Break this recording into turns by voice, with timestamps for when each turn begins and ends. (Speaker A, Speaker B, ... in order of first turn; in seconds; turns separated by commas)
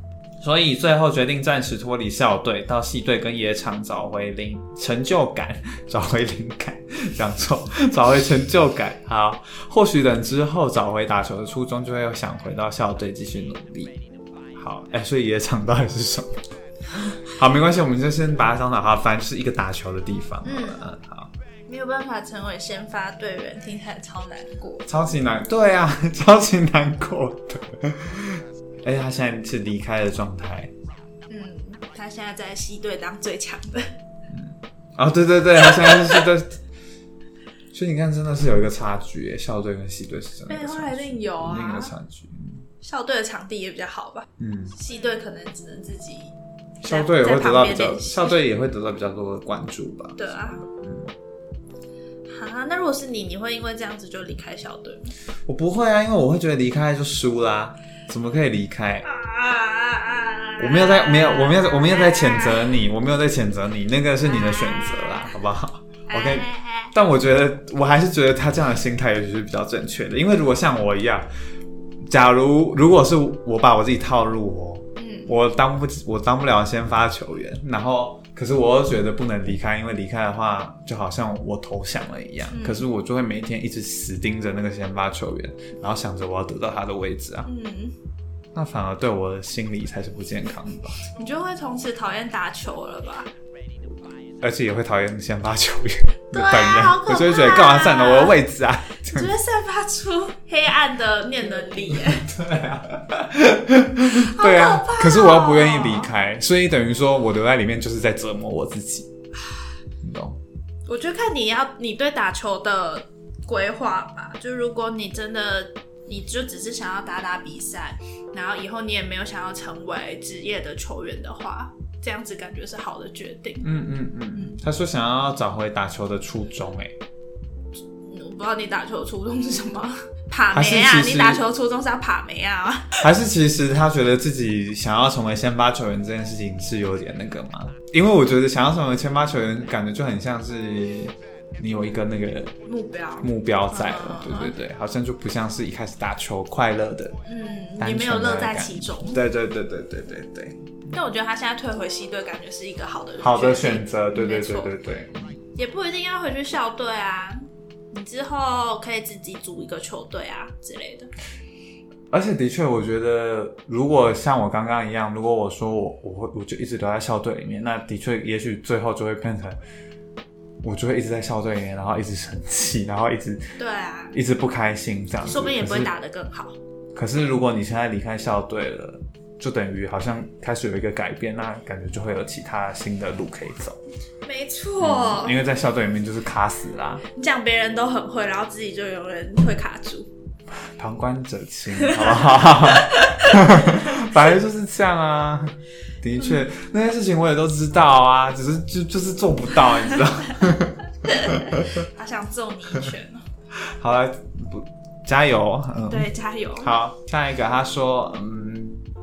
Speaker A: 0.4-14.0, Speaker A: 14.6-21.3, Speaker B: 20.4-20.9, Speaker B: 21.7-24.9, Speaker A: 24.9-30.7, Speaker B: 31.3-33.9, Speaker A: 34.3-36.6, Speaker B: 35.6-36.3, Speaker A: 37.7-42.6, Speaker B: 40.5-41.9, Speaker B: 42.8-46.3, Speaker A: 44.4-44.8, Speaker A: 46.8-51.1, Speaker B: 46.9-48.4, Speaker B: 50.2-50.6, Speaker B: 52.3-55.1, Speaker A: 55.5-59.1, Speaker B: 59.0-62.8, Speaker A: 60.6-71.3, Speaker B: 64.2-65.3, Speaker B: 66.1-66.9, Speaker A: 72.1-87.5, Speaker B: 75.0-75.3, Speaker B: 82.5-82.8, Speaker B: 87.5-88.0, Speaker A: 88.5-91.0, Speaker B: 91.2-93.3, Speaker A: 94.4-99.3, Speaker B: 96.3-98.4, Speaker B: 99.1-102.3, Speaker A: 101.7-109.1, Speaker B: 104.1-106.1, Speaker A: 110.0-110.4, Speaker B: 110.9-123.7, Speaker A: 123.6-127.0, Speaker B: 124.3-124.6, Speaker B: 128.1-133.0, Speaker A: 130.5-131.4, Speaker A: 133.0-142.6, Speaker B: 142.7-144.6, Speaker A: 143.2-147.2, Speaker B: 147.3-149.2, Speaker A: 147.8-150.7, Speaker B: 150.9-154.7, Speaker A: 153.2-155.4, Speaker B: 155.6-161.1, Speaker A: 162.1-169.6, Speaker A: 170.6-173.5, Speaker B: 173.6-174.2, Speaker A: 174.1-175.9, Speaker B: 175.2-176.6, Speaker A: 176.9-183.8, Speaker B: 184.2-185.4, Speaker A: 184.8-187.0, Speaker B: 187.1-190.1, Speaker A: 190.8-201.9, Speaker B: 191.8-194.1, Speaker B: 201.0-203.2, Speaker A: 203.6-208.8, Speaker B: 205.9-206.7